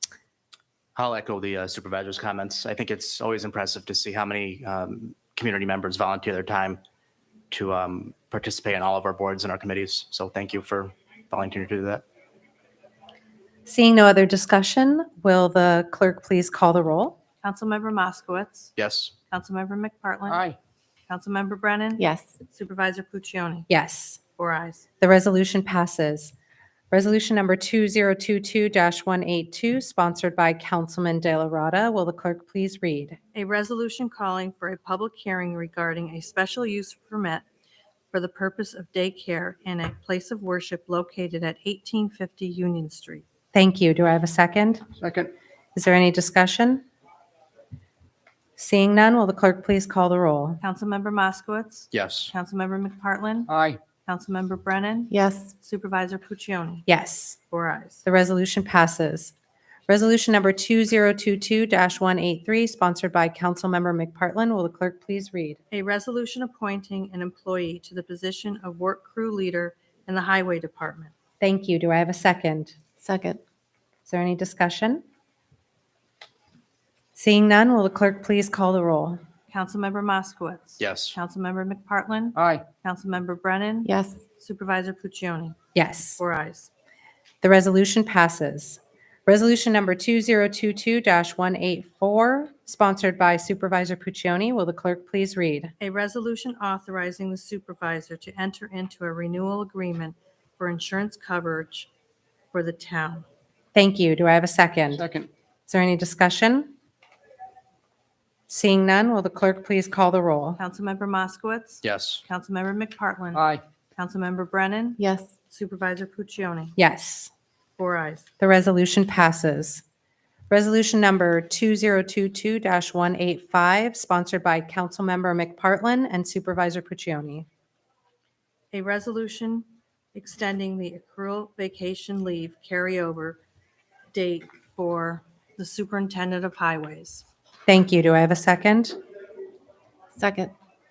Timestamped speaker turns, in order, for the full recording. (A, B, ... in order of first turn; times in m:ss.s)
0:01.0-0:06.8 A
0:07.5-0:12.0 A
0:13.7-0:17.2 B
0:17.4-0:18.7 C
0:18.8-0:19.1 A
0:19.3-0:20.4 C
0:20.3-0:20.6 D
0:21.1-0:23.7 C
0:22.0-0:22.4 E
0:23.7-0:24.2 B
0:24.4-0:24.8 C
0:25.0-0:26.3 B
0:26.9-0:33.2 B
0:33.3-0:37.4 C
0:38.1-0:43.2 C
0:43.5-0:44.8 B
0:45.0-0:45.3 D
0:45.8-0:46.8 B
0:48.6-0:50.6 B
0:50.6-0:53.5 C
0:51.9-0:52.3 A
0:53.5-0:53.8 D
0:54.1-0:56.9 C
0:55.1-0:55.5 E
0:56.9-0:57.4 B
0:57.5-0:58.0 C
0:58.0-0:59.3 B
0:59.9-1:05.6 B
1:05.7-1:11.1 C
1:11.4-1:12.8 B
1:13.0-1:13.4 E
1:14.1-1:15.0 B
1:17.2-1:19.2 B
1:19.5-1:25.6 C
1:20.8-1:21.2 A
1:22.4-1:22.6 D
1:23.8-1:24.2 E
1:25.8-1:26.2 B
1:26.2-1:26.7 C
1:27.4-1:35.7 B
1:35.8-1:41.9 C
1:42.5-1:43.3 C
1:43.8-1:45.0 B
1:45.0-1:45.3 D
1:45.7-1:46.7 B
1:48.5-1:50.6 B
1:50.6-1:53.4 C
1:51.8-1:52.2 A
1:53.3-1:53.6 D
1:54.0-1:56.8 C
1:55.0-1:55.3 E
1:56.8-1:57.3 B
1:57.8-1:58.3 C
1:58.4-1:59.8 B
2:00.5-2:07.5 B
2:08.7-2:13.4 C
2:14.1-2:17.2 C
2:17.7-2:19.0 B
2:20.2-2:20.5 E